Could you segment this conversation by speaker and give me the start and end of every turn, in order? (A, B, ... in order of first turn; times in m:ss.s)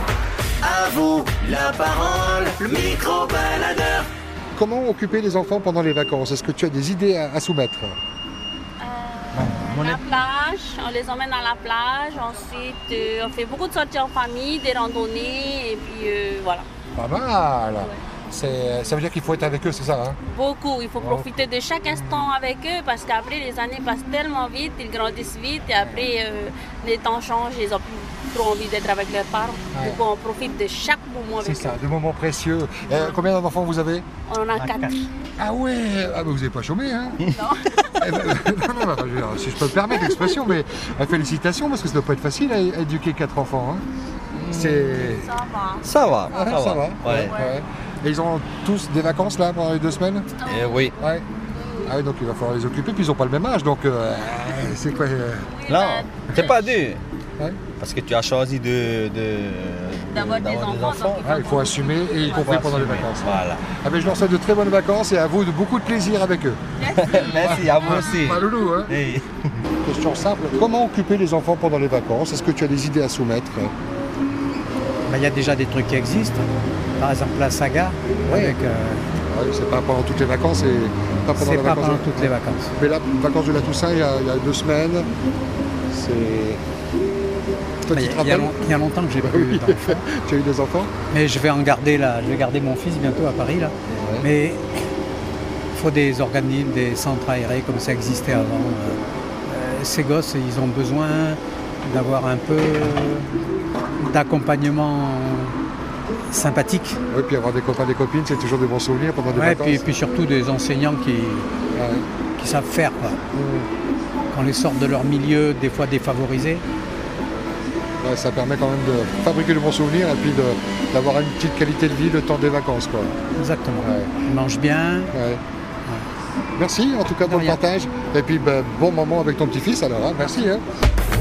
0:00.6-0:04.1 A
0:02.8-0:04.0 B
0:04.6-0:08.0 C
0:08.8-0:16.7 B
0:09.4-0:10.0 D
0:17.0-0:20.2 C
0:20.3-0:31.8 B
0:21.0-0:22.3 C
0:25.8-0:26.1 C
0:29.7-0:30.0 C
0:31.4-0:34.1 C
0:32.9-0:33.2 B
0:34.3-0:35.1 B
0:34.6-0:34.9 D
0:35.4-0:37.2 C
0:37.3-0:38.1 B
0:38.0-0:43.8 C
0:44.4-0:45.1 D
0:44.5-0:45.3 C
0:45.0-0:47.6 B
0:45.8-0:47.4 D
0:46.3-0:50.4 C
0:50.3-0:50.9 B
0:50.4-0:51.0 D
0:51.0-0:51.2 C
0:51.5-0:52.0 B
0:51.8-0:55.5 C
0:55.5-0:56.5 B
0:55.7-0:57.0 D
0:57.4-0:57.6 C
0:57.8-1:01.3 D
1:00.1-1:02.6 B
1:01.2-1:06.6 C
1:02.2-1:03.7 D
1:06.8-1:07.6 B
1:06.9-1:09.6 D
1:07.3-1:09.0 C
1:09.8-1:13.7 C
1:15.1-1:19.0 E
1:18.3-1:18.6 C
1:19.3-1:25.1 C
1:21.4-1:22.8 E
1:25.9-1:26.6 C
1:27.8-1:28.6 C
1:27.9-1:30.0 E
1:29.2-1:30.9 C
1:31.1-1:34.6 E
1:33.9-1:34.3 C
1:35.7-1:43.3 E
1:44.0-1:45.6 E
1:46.3-1:47.0 E
1:47.1-1:49.9 C
1:49.3-1:51.5 E
1:51.7-1:52.1 C
1:52.4-1:53.2 E
1:53.3-1:53.7 C
1:54.3-1:56.6 E
1:58.0-2:03.1 C
2:03.4-2:05.1 E
2:03.8-2:04.1 C
2:05.1-2:05.4 C
2:06.6-2:10.6 C
2:07.2-2:07.6 E